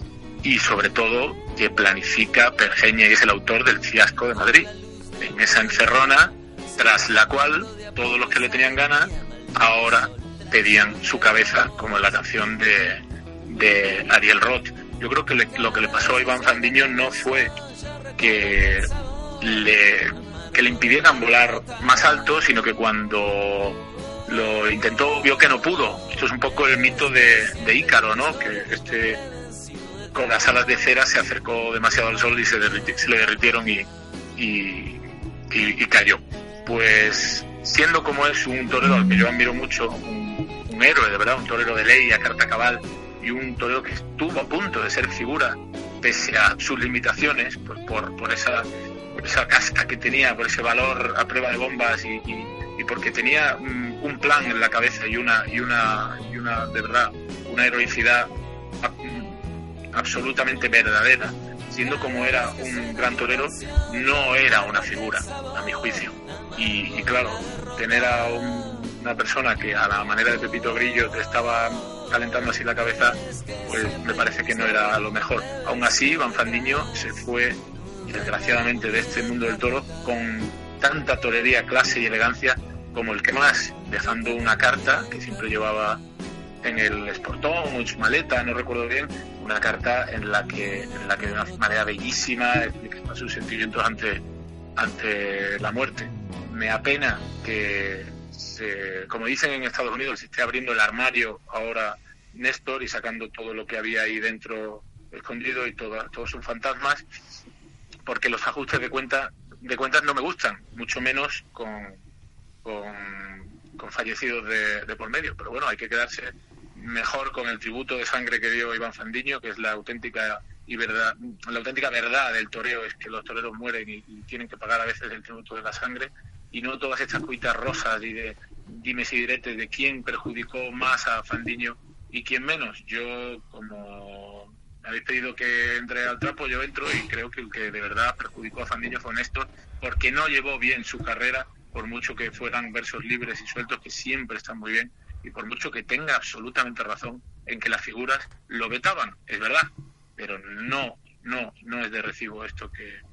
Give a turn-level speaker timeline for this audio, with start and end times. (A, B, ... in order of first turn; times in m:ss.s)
0:00.4-0:17.5 A
0:18.2-0:18.9 A
0:19.4-0:29.2 A
0:30.1-0:35.0 A
0:35.5-0:48.6 A
0:49.2-0:58.3 A
0:58.8-0:59.4 A
0:59.9-1:26.0 A
1:26.6-1:34.2 A
1:34.8-1:47.0 A
1:48.0-1:52.0 A
1:52.6-2:33.0 A